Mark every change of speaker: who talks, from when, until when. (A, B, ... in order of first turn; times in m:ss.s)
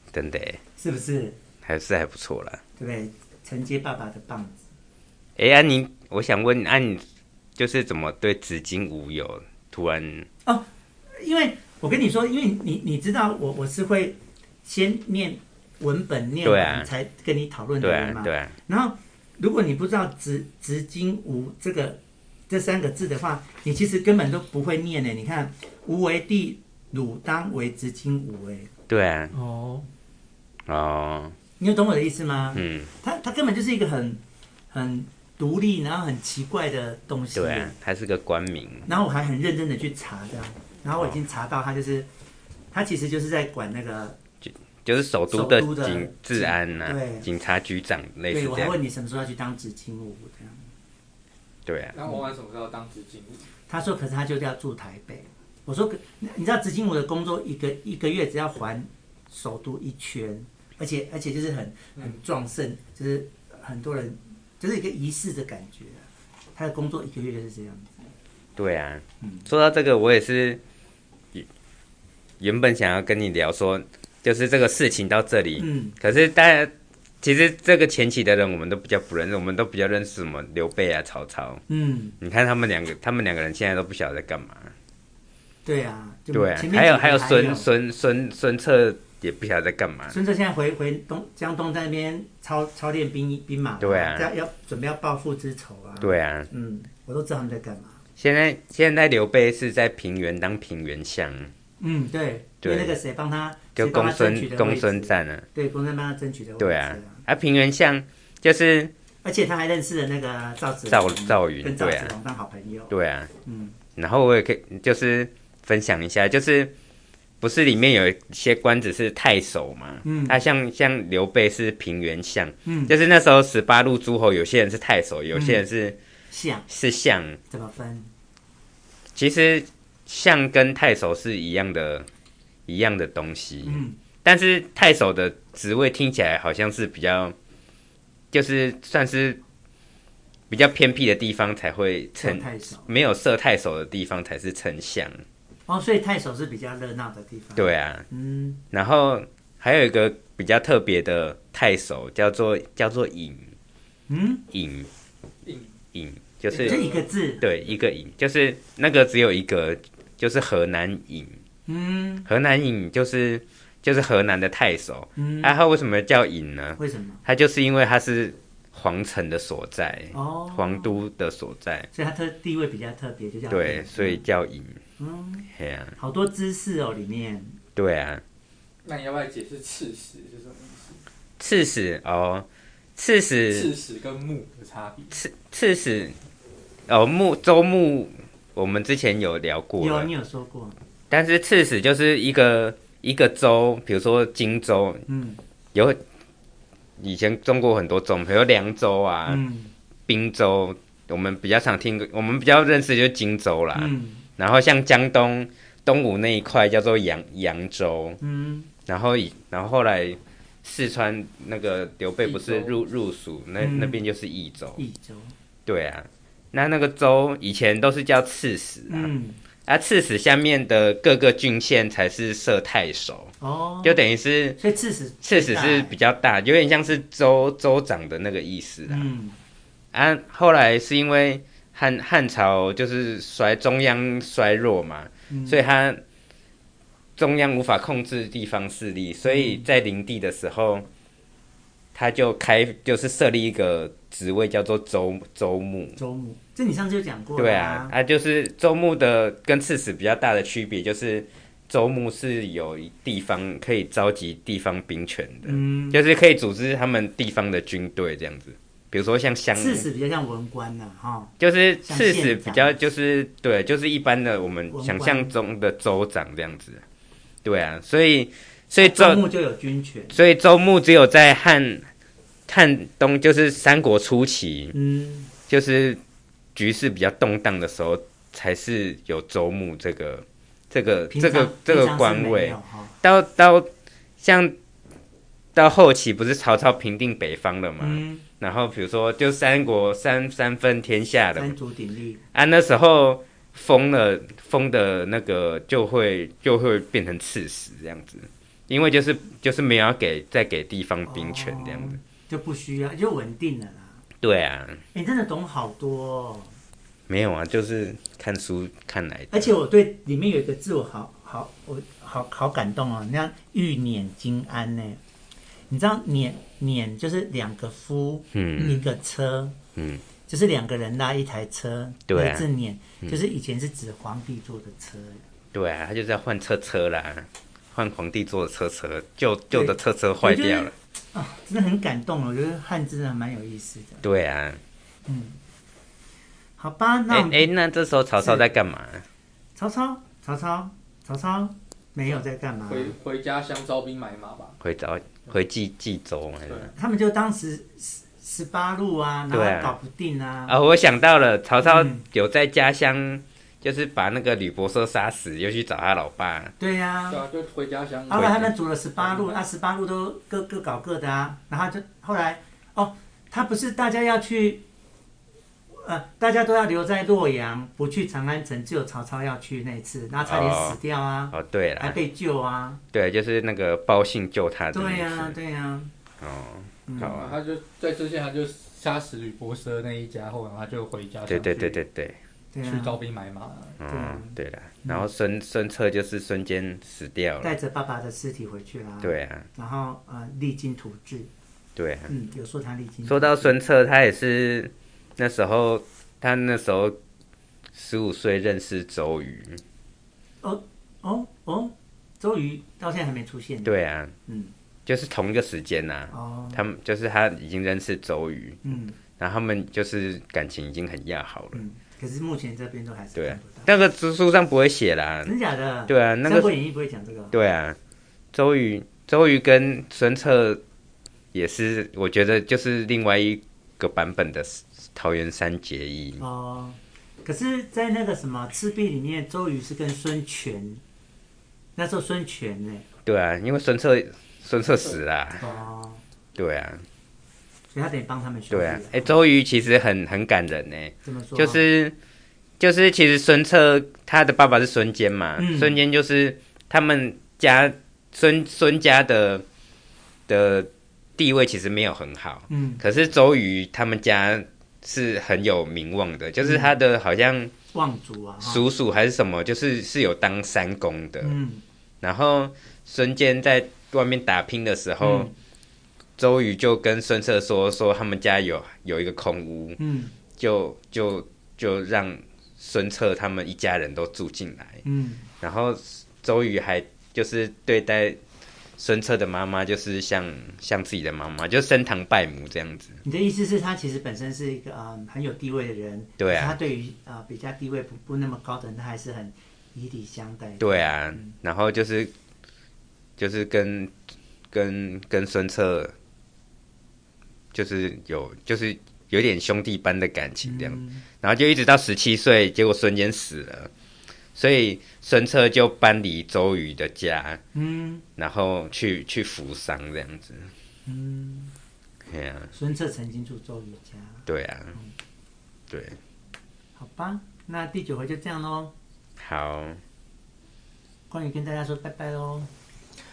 0:00.1-0:00.6 A
0:00.8-0:01.4 B
0:01.6-0:02.6 A
0:02.8-0:04.6 B
0:05.4-0:07.0 A
0:07.6-0:10.3 A
0:10.4-0:28.7 B
0:16.4-0:16.9 A
0:17.8-0:18.5 A
0:28.9-0:29.3 A
0:29.3-0:29.9 C
0:30.7-0:31.4 A
0:31.6-0:34.2 B
0:32.5-0:32.9 A
0:34.7-0:37.7 B
0:37.3-0:38.9 A
0:38.8-0:42.1 B
0:42.7-0:44.2 B
0:44.4-0:48.8 A
0:45.3-0:47.3 B
0:48.3-0:50.7 B
0:51.6-0:52.0 A
0:51.9-0:53.5 C
0:53.7-1:08.1 B
1:08.6-1:10.6 A
1:09.2-1:09.5 B
1:12.4-1:21.6 A
1:15.6-1:16.0 B
1:21.7-1:22.2 B
1:22.2-1:24.7 A
1:25.6-1:27.6 B
1:26.3-1:30.2 A
1:30.1-1:38.0 B
1:33.8-1:34.3 A
1:36.0-1:36.5 A
1:38.2-1:41.5 A
1:41.8-1:47.2 B
1:42.6-1:43.0 A
1:43.8-1:45.4 A
1:46.6-1:48.9 A
1:49.2-1:52.9 B
1:50.9-1:52.1 A
1:52.9-1:53.3 A
1:53.4-1:53.8 B
1:54.0-1:56.7 A
1:57.4-2:06.0 A
2:00.0-2:00.4 B
2:02.6-2:02.9 B
2:05.3-2:05.6 B
2:06.3-2:06.6 B
2:06.7-2:07.4 A
2:07.5-2:08.1 B
2:09.1-2:12.1 A
2:12.6-2:17.3 A
2:13.6-2:14.0 B
2:18.3-2:19.4 A
2:20.5-2:25.2 A
2:22.2-2:22.9 B
2:25.7-2:28.6 B
2:27.6-2:28.0 A
2:28.7-2:33.5 A
2:34.1-2:34.4 B
2:34.5-2:34.9 A
2:35.4-2:35.7 C
2:35.9-2:36.8 A
2:36.5-2:37.1 C
2:36.6-2:37.4 B
2:37.4-2:41.4 A
2:41.7-2:42.3 B
2:42.3-2:51.9 A
2:45.2-2:45.6 B
2:46.8-2:47.2 B
2:50.1-2:51.0 B
2:51.9-2:54.2 B
2:53.5-2:54.8 A
2:55.0-2:57.6 B
2:55.5-2:56.0 A
2:57.8-2:58.2 A
2:58.8-3:01.0 C
3:01.4-3:03.7 A
3:03.5-3:05.2 C
3:05.1-3:06.2 A
3:06.9-3:10.1 A
3:09.8-3:10.8 B
3:11.1-3:15.0 A
3:15.1-3:15.4 B
3:15.7-3:16.0 A
3:17.0-3:19.4 A
3:19.3-3:19.7 B
3:20.1-3:28.2 A
3:23.7-3:24.2 B
3:28.2-3:28.7 B
3:28.9-3:34.8 A
3:32.2-3:32.8 C
3:33.6-3:34.0 B
3:34.8-3:35.3 B
3:35.6-3:39.1 A
3:38.9-3:39.4 B
3:39.6-3:44.6 A
3:43.4-3:44.0 B
3:44.6-3:45.9 B
3:45.2-3:49.1 A
3:48.9-3:49.4 B
3:49.9-3:56.0 A
3:55.3-3:55.6 B
3:57.2-4:00.9 A
3:59.2-3:59.6 B
4:01.9-4:06.0 A
4:06.0-4:07.9 B
4:07.4-4:19.8 A
4:15.4-4:16.0 B
4:19.5-4:22.8 B
4:21.4-4:26.8 A
4:24.7-4:25.3 B
4:27.4-4:29.2 A
4:28.8-4:30.2 B
4:30.1-4:31.8 A
4:32.5-4:34.7 A
4:34.7-4:35.3 B
4:35.5-4:36.0 A
4:36.5-4:44.5 A
4:41.1-4:43.0 B
4:45.5-4:51.5 A
4:47.8-4:48.2 B
4:51.3-4:52.2 B
4:52.3-5:02.0 A
5:01.0-5:04.0 B
5:04.2-5:04.8 A
5:04.9-5:06.5 B
5:07.1-5:09.5 A
5:09.3-5:15.0 B
5:15.7-5:19.6 B
5:18.3-5:19.0 A
5:19.8-5:20.0 A
5:20.3-5:25.2 B
5:22.1-5:22.4 A
5:25.5-5:30.7 A
5:29.5-5:34.0 B
5:34.0-5:34.6 A
5:35.0-5:35.4 B
5:36.6-5:37.5 B
5:37.1-5:39.0 A
5:38.2-5:38.4 B
5:39.6-5:42.9 B
5:42.7-5:44.6 C
5:44.6-5:46.7 A
5:46.7-5:50.6 B
5:49.3-5:49.7 A
5:50.5-5:56.5 A
5:51.6-5:52.0 B
5:56.6-5:57.2 B
5:57.1-5:58.3 C
5:58.1-6:04.6 B
5:58.1-5:58.5 A
5:59.0-5:59.4 C
6:05.7-6:12.8 B
6:10.2-6:10.8 A
6:11.3-6:12.0 A
6:12.9-6:15.4 A
6:14.7-6:15.9 B
6:16.2-6:17.4 A
6:16.9-6:17.2 B
6:17.0-6:21.8 C
6:21.3-6:22.2 A
6:22.5-6:23.0 B
6:22.6-6:23.8 C
6:23.8-6:27.5 A
6:23.8-6:25.1 B
6:27.4-6:31.3 B
6:29.0-6:29.5 A
6:31.8-6:32.1 A
6:32.1-6:33.5 B
6:33.0-6:37.0 A
6:37.7-6:39.6 A
6:40.4-6:43.7 B
6:43.6-6:44.1 A
6:44.2-6:44.5 B
6:44.8-6:48.6 A
6:46.1-6:46.6 B
6:48.6-6:49.0 B
6:49.2-6:51.6 A
6:51.5-6:53.7 B
6:53.2-6:55.3 A
6:55.2-6:57.4 B
6:55.9-6:56.5 A
6:57.3-6:57.8 A
6:58.3-7:00.6 A
7:01.3-7:06.2 A
7:06.2-7:10.8 B
7:11.8-7:12.8 B
7:13.0-7:15.4 A
7:15.4-7:16.0 B
7:16.4-7:16.8 A
7:17.7-7:19.1 B
7:18.5-7:22.0 A
7:21.0-7:21.6 B
7:22.6-7:29.4 A
7:25.4-7:25.8 B
7:30.3-7:37.5 A
7:32.5-7:32.8 B
7:36.4-7:36.7 B
7:37.7-7:38.6 B
7:38.4-7:41.4 A
7:41.2-7:41.6 B
7:42.0-7:45.3 A
7:45.0-7:45.3 B
7:46.2-7:49.8 A
7:49.8-7:50.1 B
7:50.3-7:54.8 A
7:54.8-7:55.2 B
7:55.4-7:58.2 A
7:58.8-8:03.0 A
8:03.0-8:11.3 B
8:06.2-8:06.6 A
8:10.6-8:12.1 A
8:13.2-8:13.9 A
8:14.5-8:15.9 A
8:17.5-8:23.7 A
8:20.4-8:21.0 B
8:24.3-8:27.4 A
8:27.5-8:28.0 B
8:28.2-8:30.5 A
8:30.8-8:31.5 B
8:32.1-8:32.5 A
8:32.5-8:34.9 B
8:34.3-8:34.8 A
8:35.7-8:36.0 A
8:36.8-8:38.7 B
8:39.2-8:39.8 A
8:41.1-8:42.5 B